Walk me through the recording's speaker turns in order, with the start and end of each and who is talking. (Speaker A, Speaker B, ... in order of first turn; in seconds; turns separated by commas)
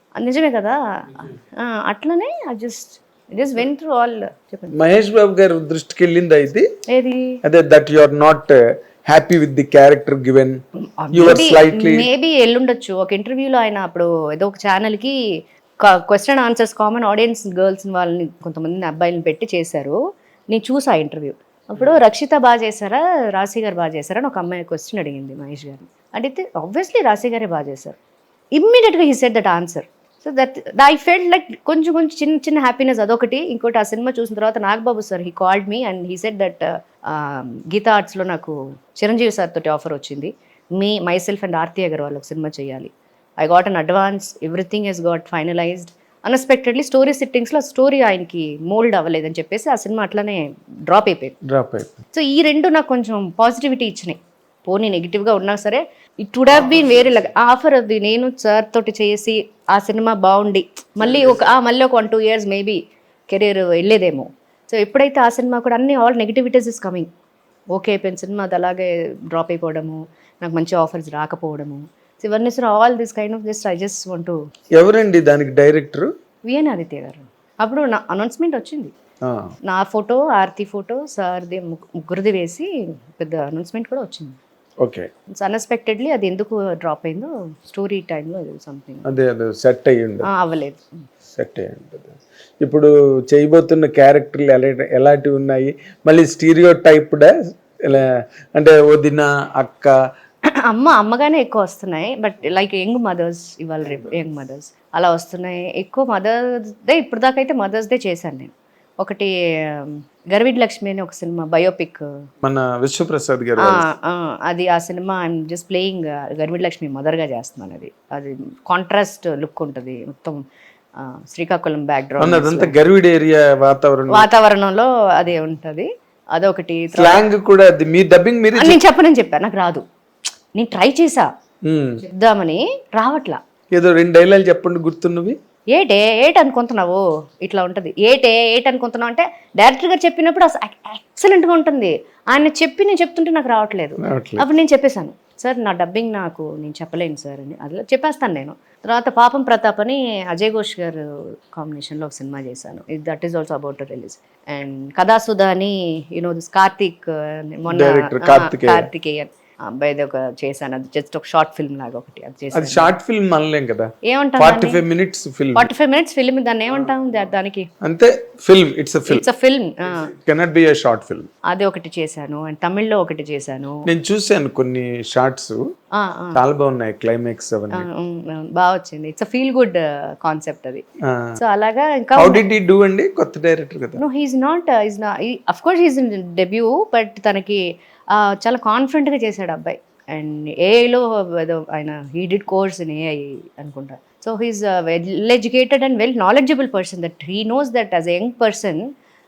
Speaker A: 0.2-4.7, Speaker B: 4.7-6.7, Speaker A: 6.9-7.4, Speaker B: 7.4-10.6, Speaker A: 10.9-15.2, Speaker B: 11.1-12.1, Speaker A: 15.8-20.0, Speaker A: 20.5-28.0, Speaker A: 28.6-51.4, Speaker B: 51.4-51.9, Speaker A: 52.1-67.1, Speaker A: 67.8-74.4, Speaker B: 74.8-76.1, Speaker A: 76.5-78.9, Speaker B: 79.2-79.5, Speaker A: 79.6-84.4, Speaker B: 84.8-85.1, Speaker A: 85.3-89.1, Speaker B: 89.0-90.3, Speaker A: 90.2-91.0, Speaker B: 91.3-97.3, Speaker B: 97.8-100.0, Speaker A: 100.7-112.1, Speaker B: 112.4-113.8, Speaker A: 113.6-120.4, Speaker A: 121.0-122.7, Speaker B: 122.2-124.3, Speaker A: 124.1-127.3, Speaker B: 126.9-128.8, Speaker A: 128.5-129.8, Speaker A: 130.6-131.3, Speaker B: 131.7-132.0, Speaker A: 132.0-133.4, Speaker B: 133.8-135.4, Speaker A: 135.7-162.9, Speaker B: 144.0-144.5, Speaker B: 157.7-158.9, Speaker B: 162.5-165.7, Speaker A: 164.0-164.8, Speaker A: 165.6-167.7, Speaker B: 167.8-169.2, Speaker A: 169.1-170.1, Speaker B: 170.2-171.3, Speaker A: 171.5-173.8, Speaker B: 173.9-175.6, Speaker A: 175.9-176.4, Speaker B: 176.3-177.9, Speaker A: 177.7-180.8, Speaker B: 181.1-181.4, Speaker A: 181.4-182.4, Speaker B: 182.2-184.0, Speaker A: 184.0-198.9